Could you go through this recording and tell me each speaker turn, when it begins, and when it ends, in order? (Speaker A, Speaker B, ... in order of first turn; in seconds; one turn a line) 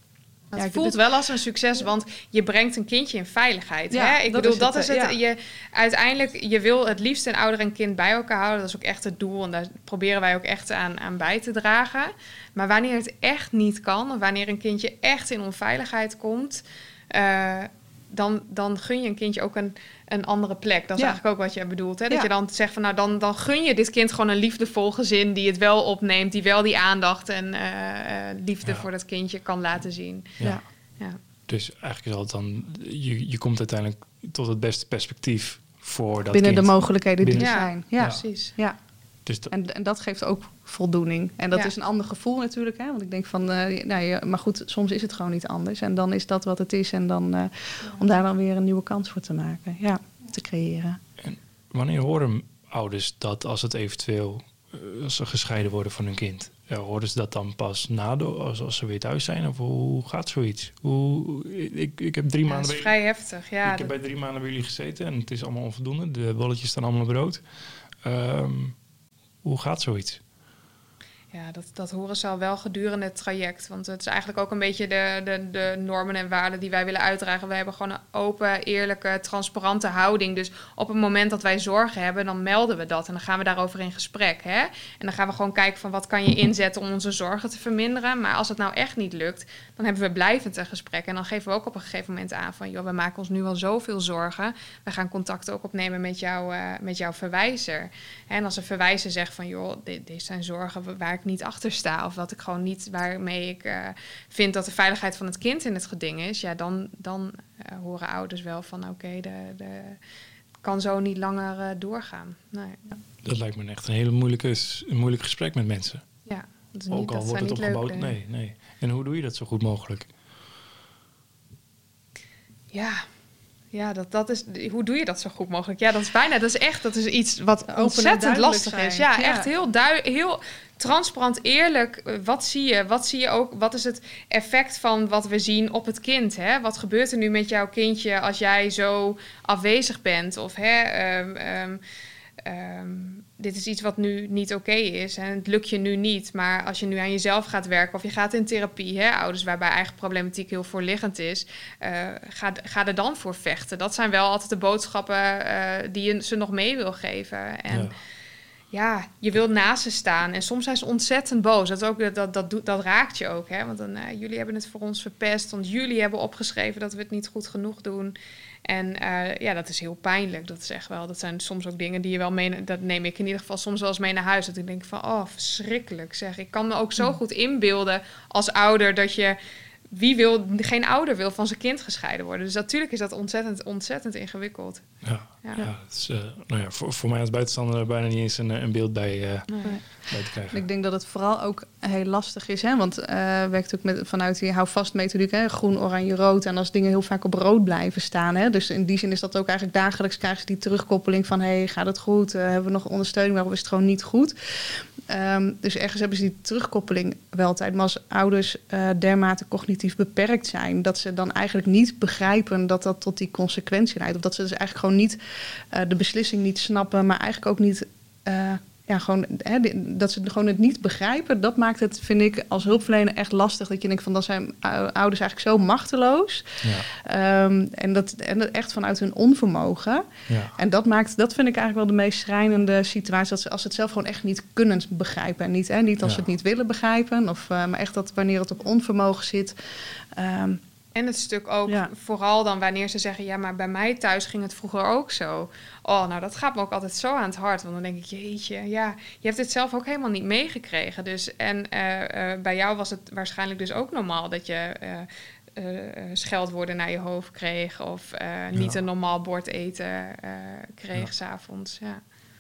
Speaker A: 0.5-30.4
Speaker B: 0.6-1.0
Speaker B: 3.9-5.2
Speaker C: 31.5-38.2
Speaker B: 36.3-38.8
Speaker A: 37.4-38.5
Speaker C: 39.3-39.5
Speaker B: 39.5-51.0
Speaker C: 51.2-62.9
Speaker A: 62.5-63.9
Speaker C: 63.6-67.4
Speaker C: 68.0-68.8
Speaker C: 69.4-70.2
Speaker A: 71.3-110.0
Speaker A: 110.6-112.8
Speaker C: 113.2-116.0
Speaker A: 116.3-118.1
Speaker C: 116.9-120.1
Speaker A: 122.7-123.1
Speaker A: 123.7-141.8
Speaker B: 127.7-129.5
Speaker A: 142.4-157.9
Speaker A: 158.7-179.4
Speaker A: 179.9-184.8
Speaker C: 185.0-190.6
Speaker A: 189.5-189.8
Speaker B: 190.5-215.2
Speaker B: 215.7-239.6
Speaker C: 226.6-226.9
Speaker C: 230.3-230.6
Speaker B: 240.1-240.6
Speaker A: 240.9-262.0